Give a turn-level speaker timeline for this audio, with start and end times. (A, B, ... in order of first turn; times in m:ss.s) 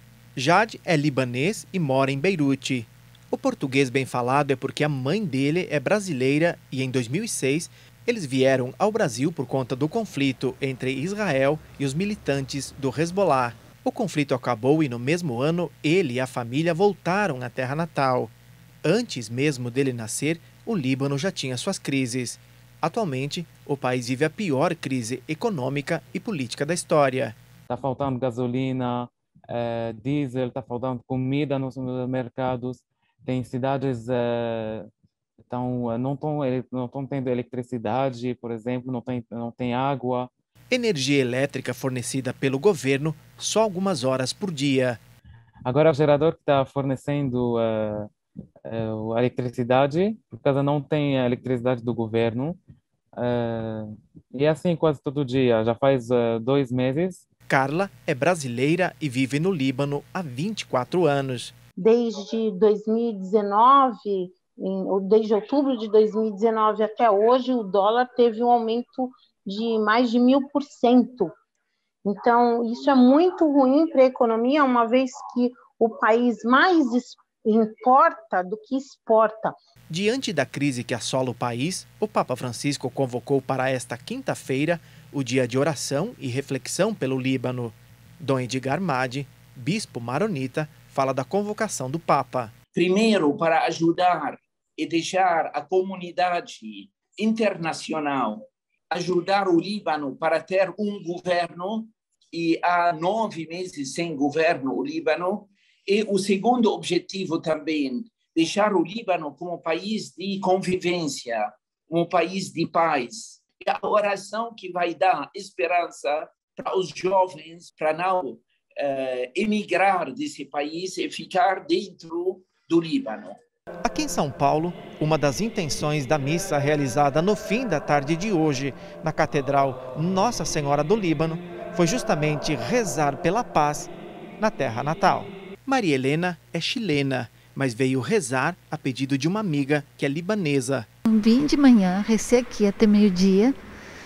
0:00.4-0:18.3 A
0:18.8-0:27.4 A
0:27.7-0:34.9 B
0:35.5-0:40.3 B
0:40.7-0:45.0 A
0:45.6-0:48.1 B
0:48.6-0:52.6 B
0:53.2-0:57.2 B
0:57.5-1:01.5 A
1:01.8-1:11.3 C
1:12.0-1:19.5 C
1:19.9-1:32.5 A
1:32.7-2:03.4 D
2:03.8-2:20.9 A
2:21.2-2:23.5 E